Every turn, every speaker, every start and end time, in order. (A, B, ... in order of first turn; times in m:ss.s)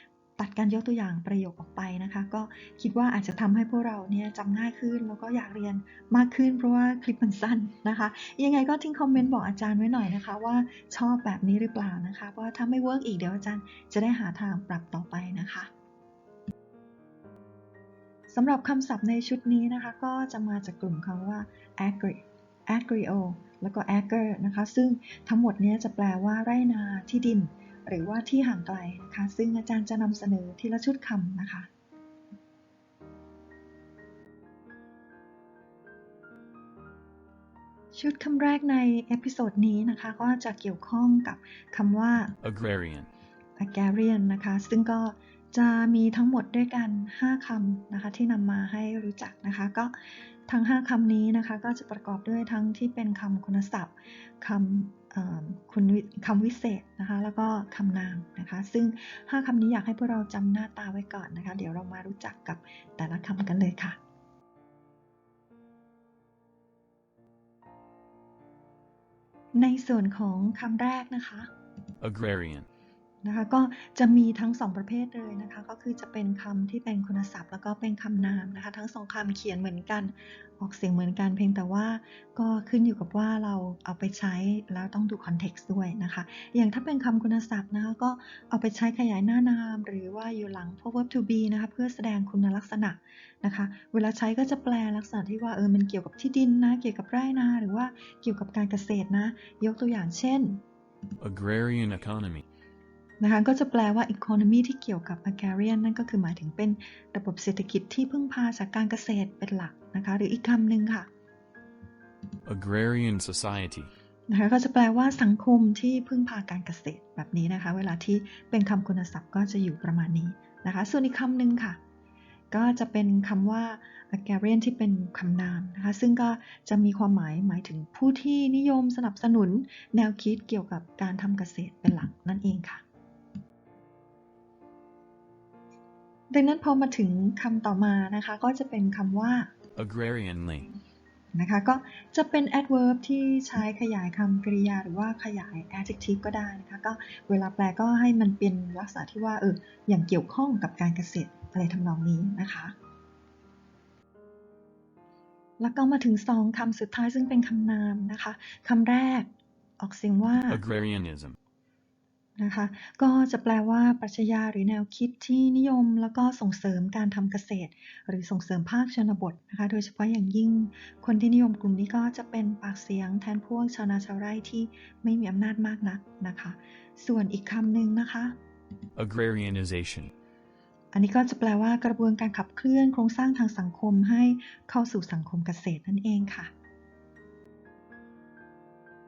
0:00.4-0:15.7 A
0:18.3-0:31.7 A
0:37.9-0:42.4 A
0:42.4-0:43.1 B
0:43.6-1:04.0 A
1:09.5-1:11.5 A
1:12.0-1:12.7 B
1:13.2-1:40.6 A
1:41.2-1:42.4 B
1:43.2-1:51.1 A
1:52.4-1:53.9 B
1:54.3-2:01.8 A
2:02.5-2:12.8 A
2:16.3-2:19.5 A
2:19.8-2:20.7 B
2:21.3-2:32.7 A
2:35.6-2:40.6 A
2:40.5-2:41.4 B
2:42.4-2:58.4 A
2:59.0-3:00.1 B
3:00.9-3:06.5 A